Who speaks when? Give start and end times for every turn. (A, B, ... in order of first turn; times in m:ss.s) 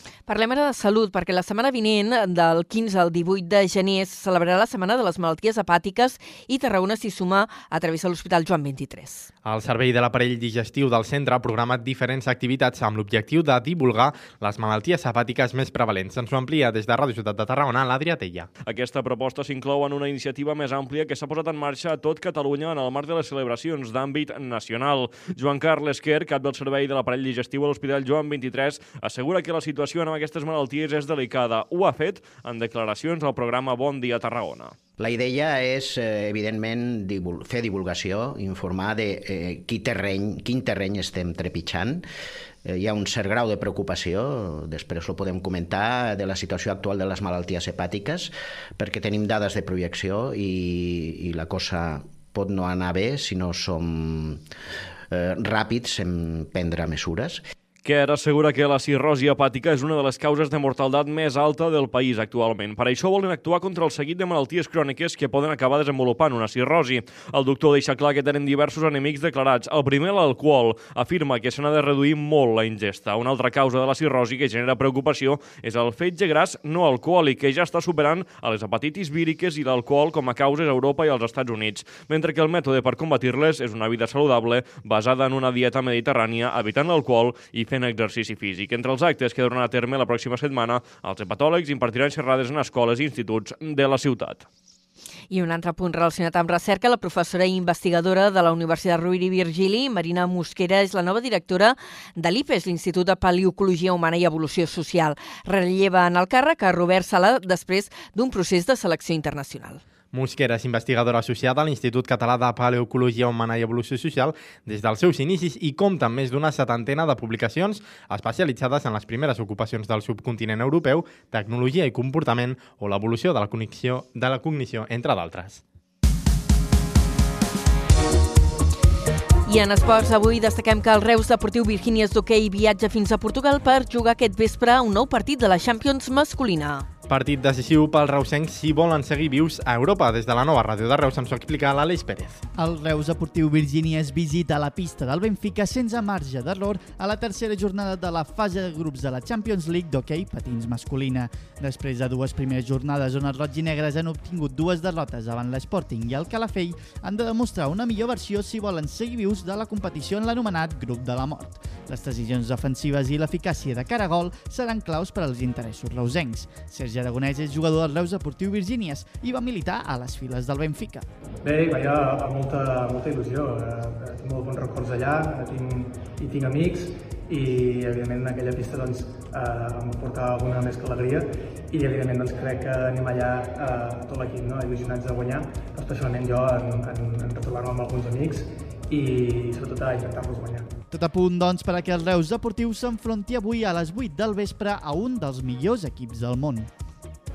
0:00.3-0:09.3 A
0:09.4-0:18.5 B
0:18.6-0:34.8 C
0:35.0-0:42.0 D
0:42.7-0:54.4 D
0:55.1-0:57.4 D
0:57.8-1:34.5 C
1:35.3-1:49.8 A
1:50.1-2:05.6 B
2:09.5-2:16.9 A
2:17.1-2:22.4 B
2:22.6-2:51.1 E
2:51.4-3:10.7 F
3:10.9-3:16.7 E